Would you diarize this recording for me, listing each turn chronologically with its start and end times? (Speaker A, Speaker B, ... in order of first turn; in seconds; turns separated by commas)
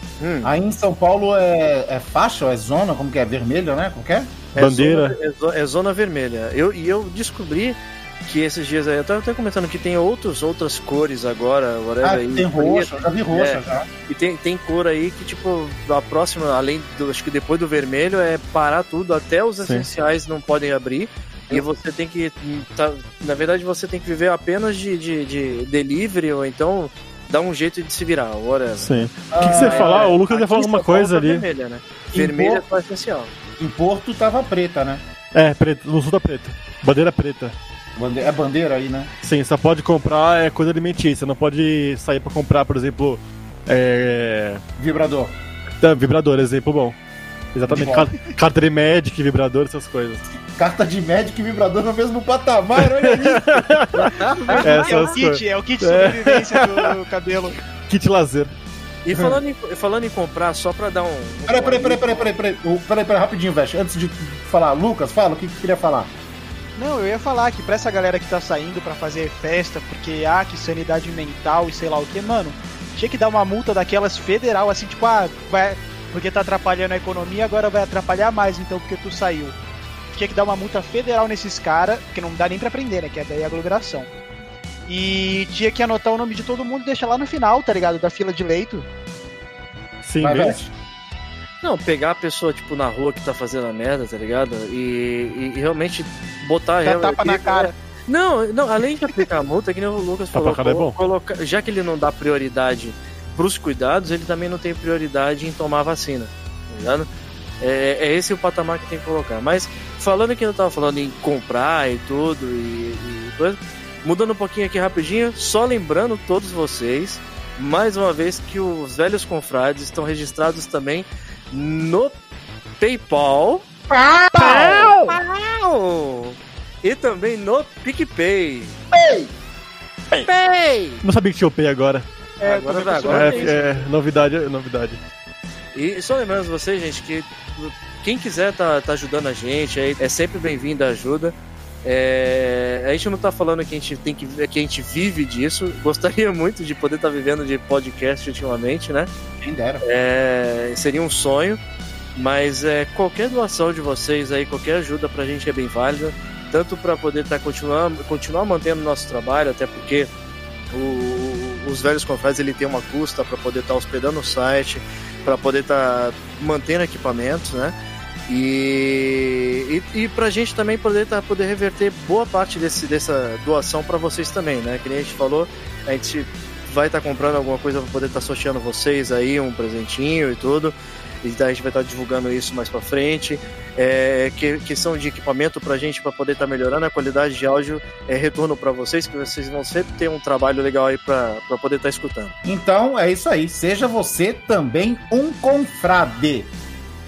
Speaker A: 0.2-0.5, Speaker B: 0.4-4.4, Speaker A: 4.5-33.3, Speaker C: 4.6-5.2, Speaker B: 12.0-13.9, Speaker C: 19.6-19.9, Speaker C: 28.8-31.4, Speaker B: 29.3-30.2, Speaker B: 32.1-32.7, Speaker B: 33.6-35.0, Speaker C: 35.3-37.6, Speaker B: 38.0-39.1, Speaker C: 39.2-44.6, Speaker B: 44.8-45.4, Speaker C: 45.8-47.0, Speaker C: 47.5-50.3, Speaker B: 47.7-48.1, Speaker B: 50.3-55.0, Speaker C: 52.8-54.1, Speaker A: 54.2-55.2, Speaker D: 54.4-57.6, Speaker C: 54.6-57.0, Speaker C: 57.8-58.5, Speaker A: 59.0-62.3, Speaker B: 59.1-59.4, Speaker B: 61.5-66.1, Speaker D: 66.8-79.6, Speaker D: 80.1-84.1, Speaker D: 84.9-88.9, Speaker C: 90.0-90.6, Speaker B: 90.2-90.7, Speaker A: 91.6-107.1, Speaker D: 96.8-97.7, Speaker C: 100.3-101.0, Speaker A: 107.6-122.1, Speaker A: 122.8-123.7, Speaker B: 123.9-125.0, Speaker C: 124.4-125.2, Speaker A: 124.4-128.8, Speaker B: 128.9-129.3, Speaker A: 130.2-131.0, Speaker C: 131.0-132.1, Speaker D: 132.4-133.9, Speaker A: 132.4-133.6, Speaker C: 133.1-135.0, Speaker A: 135.7-149.1, Speaker B: 149.4-149.8, Speaker A: 149.8-151.6, Speaker A: 152.2-160.1, Speaker A: 160.7-167.8, Speaker A: 168.3-192.3, Speaker B: 192.4-196.5